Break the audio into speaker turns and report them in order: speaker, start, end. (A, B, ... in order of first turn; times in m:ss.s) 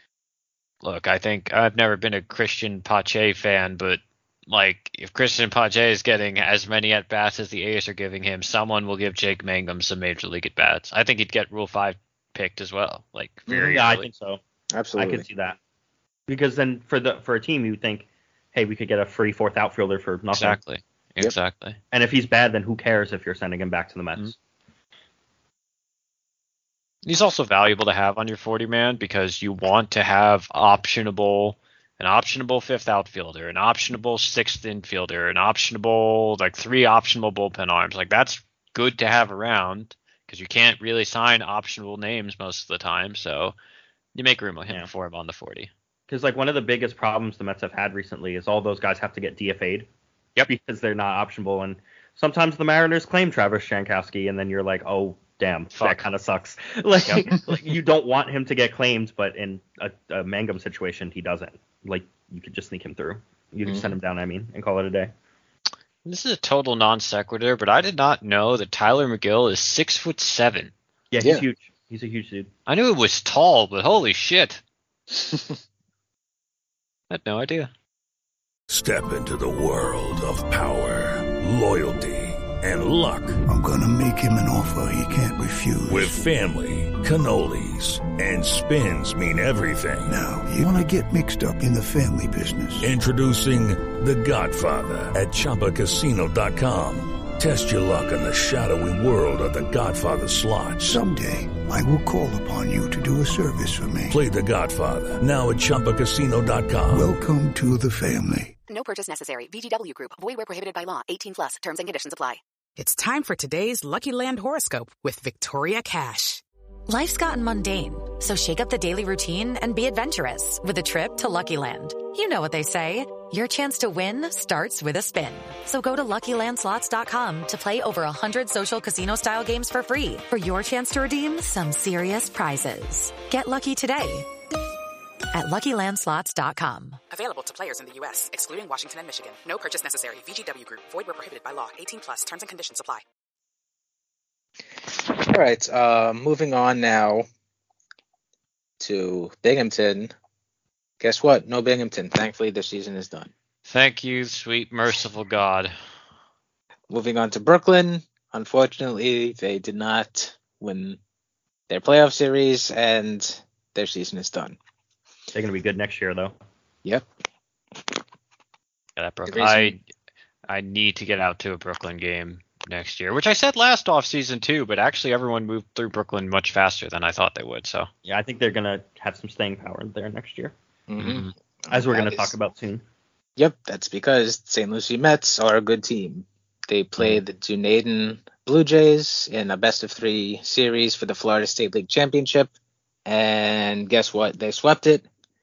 0:00.8-0:14.1 A
0:13.5-0:13.8 B
0:13.8-0:14.4 C
0:14.7-0:15.3 B
0:15.0-0:15.6 C
0:16.3-0:20.6 C
0:20.3-0:21.8 A
0:21.9-0:24.3 C
0:27.0-0:43.6 A
0:44.2-0:45.7 A
0:46.1-0:49.9 C
0:50.5-1:05.1 C
0:55.7-0:56.0 A
1:03.7-1:04.0 B
1:06.0-1:10.7 A
1:11.1-1:12.5 C
1:12.7-1:14.6 A
1:15.2-1:15.6 B
1:17.1-1:17.7 A
1:18.7-1:23.4 D
1:23.5-1:26.3 E
1:25.8-1:30.2 D
1:30.1-1:33.0 E
1:32.8-1:41.0 D
1:40.8-1:44.2 E
1:44.1-1:47.1 D
1:46.9-1:48.6 E
1:48.7-1:52.4 F
1:52.8-1:56.4 G
1:56.9-2:14.3 H
2:15.3-2:17.0 H
2:17.1-2:23.0 G
2:25.0-2:27.3 B
2:28.8-2:30.1 B
2:31.0-2:33.3 B
2:33.7-2:35.7 A
2:36.9-2:41.0 B
2:41.7-2:44.6 B
2:45.3-2:46.4 C
2:49.0-2:49.8 A
2:49.3-2:49.8 B
2:50.5-2:57.9 A
2:58.0-3:00.5 C
3:00.9-3:02.3 B
3:01.0-3:01.3 A
3:01.7-3:02.8 C
3:03.4-3:12.5 B
3:13.1-3:15.1 B